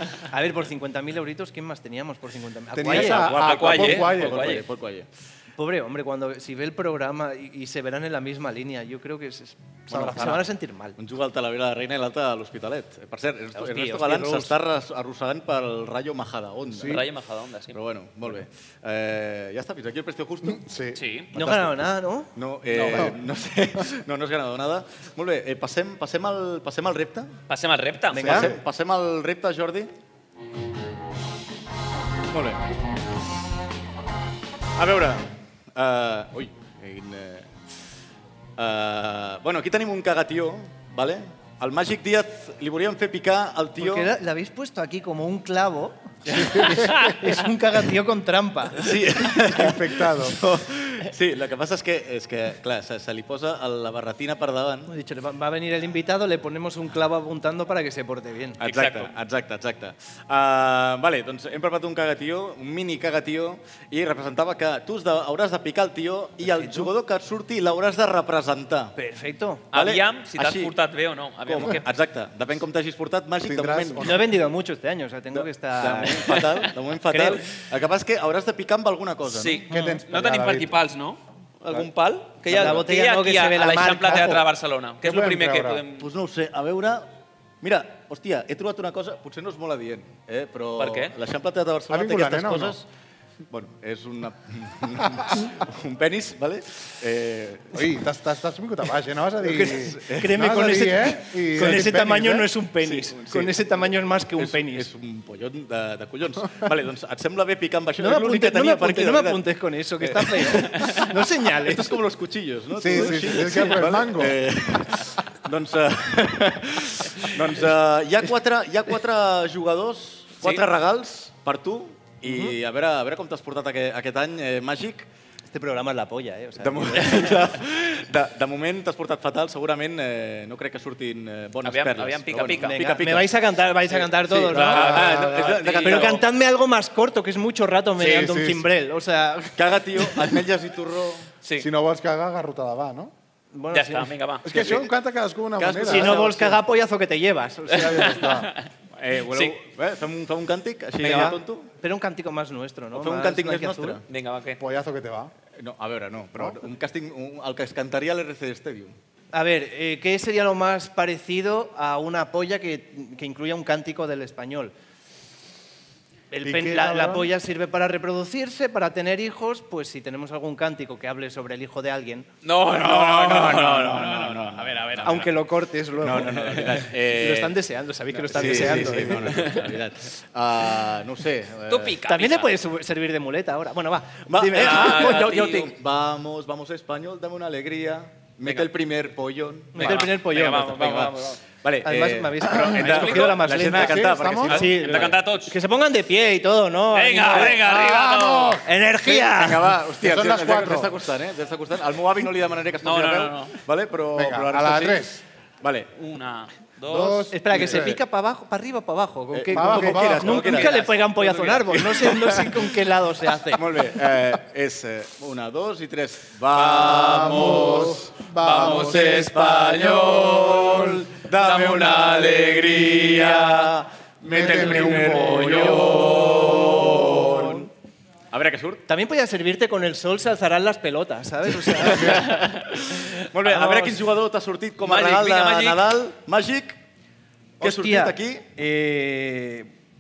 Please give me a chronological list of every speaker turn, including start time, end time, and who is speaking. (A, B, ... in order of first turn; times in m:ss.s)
0:00.3-0:03.3 A
0:02.7-0:04.6 B
0:02.9-0:05.1 C
0:02.9-0:04.7 D
0:05.6-0:11.0 A
0:09.9-0:10.5 B
0:09.9-0:10.4 C
0:11.0-0:17.1 C
0:13.6-0:14.6 A
0:16.7-0:17.0 B
0:16.8-0:17.8 D
0:17.7-0:20.6 C
0:20.4-0:21.0 B
0:21.0-0:21.3 D
0:21.3-0:22.3 A
0:21.3-0:27.4 C
0:22.7-0:23.1 D
0:22.9-0:23.1 B
0:27.5-0:28.5 D
0:28.1-0:28.5 A
0:28.1-0:29.9 C
0:28.2-0:28.5 B
0:32.3-0:32.6 C
0:34.8-0:37.5 C
0:38.6-0:44.1 C
0:43.8-0:48.9 A
0:46.3-0:46.9 C
0:46.8-0:47.2 D
0:48.8-0:54.9 C
0:49.4-0:50.4 B
0:54.9-0:58.6 A
0:58.6-1:09.0 C
0:58.6-0:59.1 D
1:06.4-1:06.9 A
1:09.0-1:09.7 A
1:09.7-1:10.7 C
1:09.7-1:11.8 D
1:11.4-1:14.3 C
1:13.4-1:14.4 B
1:14.0-1:16.4 A
1:15.3-1:19.6 C
1:17.1-1:17.4 A
1:19.3-1:26.1 D
1:19.7-1:20.8 B
1:19.7-1:20.0 A
1:22.5-1:24.4 A
1:22.5-1:22.8 C
1:24.1-1:24.4 B
1:25.0-1:25.8 B
1:26.0-1:27.1 C
1:27.6-1:32.9 C
1:30.8-1:31.1 D
1:31.9-1:32.8 B
1:33.5-1:37.8 C
1:37.7-1:42.5 B
1:39.4-1:44.9 A
1:39.9-1:40.8 C
1:41.6-1:42.0 C
1:42.8-1:49.5 C
1:48.0-1:52.0 A
1:50.0-2:05.1 C
1:52.8-1:54.4 B
2:00.4-2:00.7 D
2:02.2-2:02.6 A
2:05.5-2:07.3 A
2:06.6-2:16.3 C
2:11.6-2:12.9 D
2:12.6-2:15.0 A
2:14.6-2:15.6 B
2:14.6-2:16.2 D
2:15.8-2:19.6 A
2:18.0-2:18.7 B
2:19.6-2:21.3 C
2:21.4-2:21.7 D
2:21.6-2:23.1 B
2:23.5-2:24.2 A
2:23.7-2:24.5 D
2:24.4-2:26.5 B
2:24.5-2:24.9 C
2:25.6-2:26.6 C
2:25.9-2:28.0 A
2:27.7-2:28.5 B
2:27.8-2:28.7 D
2:28.9-2:31.7 C
2:31.0-2:34.0 A
2:32.9-2:34.0 C
2:34.1-2:34.6 D
2:34.6-2:35.3 B
2:35.6-2:39.0 C
2:39.3-2:44.7 A
2:46.3-2:52.3 A
2:46.4-2:47.3 B
2:52.4-2:55.3 D
2:52.7-2:55.3 C
2:55.0-2:59.5 A
2:56.0-2:57.6 C
2:58.1-3:02.0 C
2:59.2-2:59.7 D
3:01.7-3:02.5 D
3:02.1-3:05.2 A
3:04.3-3:15.2 C
3:04.5-3:05.7 D
3:08.4-3:08.7 D
3:09.7-3:11.0 A
3:09.8-3:11.4 D
3:11.8-3:17.7 A
3:12.6-3:13.5 D
3:13.5-3:14.7 B
3:14.4-3:15.6 D
3:16.9-3:18.6 D
3:17.4-3:18.7 B
3:18.6-3:19.7 A
3:19.0-3:25.1 C
3:20.0-3:20.9 B
3:22.8-3:23.6 D
3:24.1-3:25.2 B
3:25.6-3:25.9 C
3:26.0-3:27.3 D
3:26.9-3:28.0 B
3:27.3-3:33.6 A
3:27.5-3:28.0 C
3:29.3-3:32.8 C
3:29.5-3:30.8 B
3:30.6-3:30.9 D
3:33.4-3:47.6 C
3:36.6-3:37.8 D
3:36.9-3:39.2 B
3:38.4-3:43.7 D
3:40.5-3:40.8 B
3:44.2-3:47.4 B
3:44.4-3:45.4 D
3:47.4-3:47.7 A
3:48.3-3:48.8 C
3:48.9-3:52.2 A
3:51.5-3:56.8 C
3:51.8-3:52.2 B
3:52.3-3:52.6 D
3:53.4-3:54.0 A
3:54.8-3:55.9 D
3:57.6-3:58.4 C
3:57.6-3:59.7 A